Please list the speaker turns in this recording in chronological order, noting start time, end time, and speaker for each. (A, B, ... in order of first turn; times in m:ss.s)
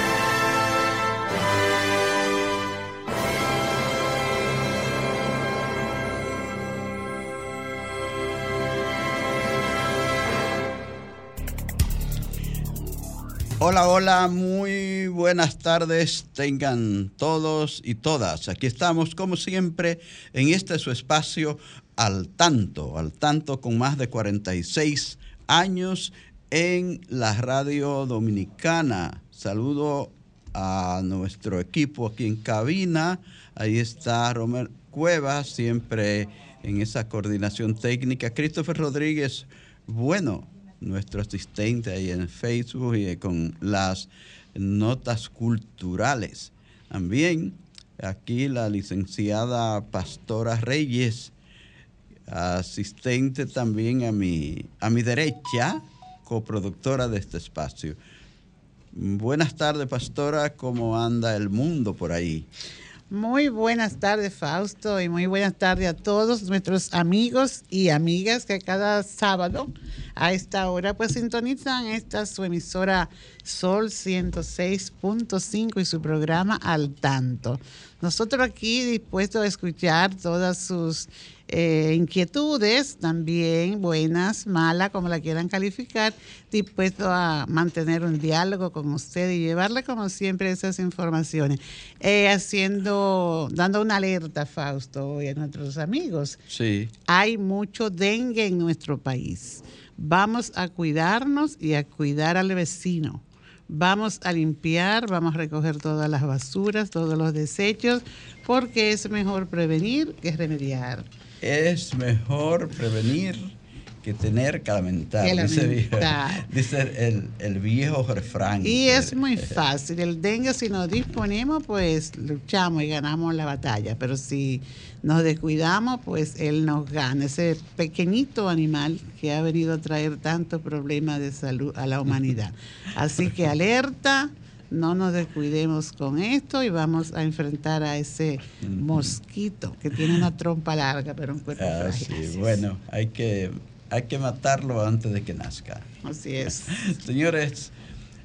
0:13.6-0:51.3 A
0:52.3-0:58.0 A
0:58.9-1:02.5 A
1:03.1-1:36.4 B
1:36.5-1:36.9 A
1:37.1-1:51.0 B
1:51.4-1:59.6 A
1:55.2-1:56.4 B
1:58.6-2:22.6 B
2:18.6-2:19.1 A
2:21.6-2:25.9 A
2:26.0-2:26.8 B
2:26.7-2:27.7 A